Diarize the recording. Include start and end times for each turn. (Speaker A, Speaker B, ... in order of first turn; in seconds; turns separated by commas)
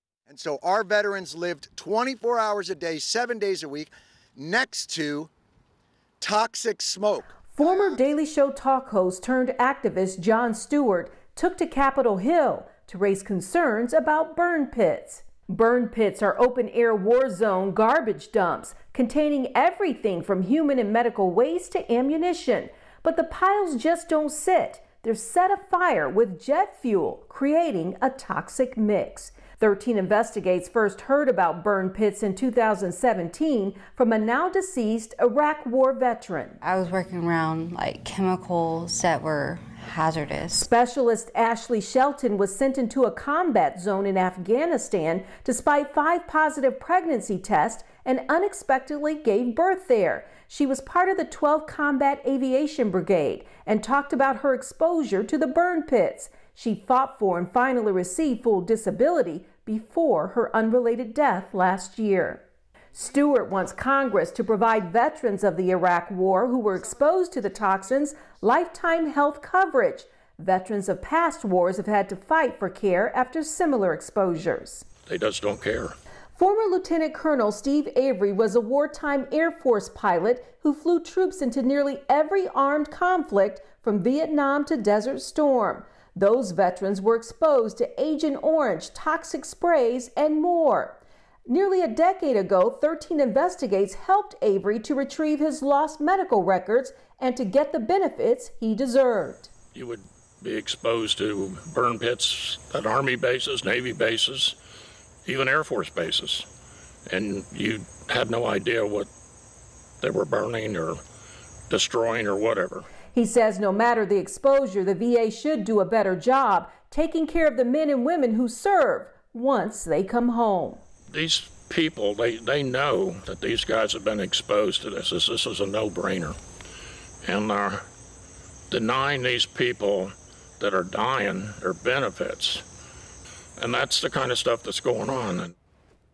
Speaker A: 0.3-5.3, Speaker A: 6.2-8.0, Speaker B: 7.5-36.6, Speaker C: 36.6-40.7, Speaker B: 40.5-62.4, Speaker B: 63.0-74.8, Speaker D: 75.1-76.0, Speaker B: 76.4-99.5, Speaker D: 99.7-104.5, Speaker D: 105.2-106.5, Speaker D: 107.1-109.1, Speaker D: 110.0-111.0, Speaker D: 111.7-112.9, Speaker B: 113.1-120.8, Speaker D: 121.1-126.4, Speaker D: 127.2-127.8, Speaker D: 128.7-132.6, Speaker D: 133.6-135.5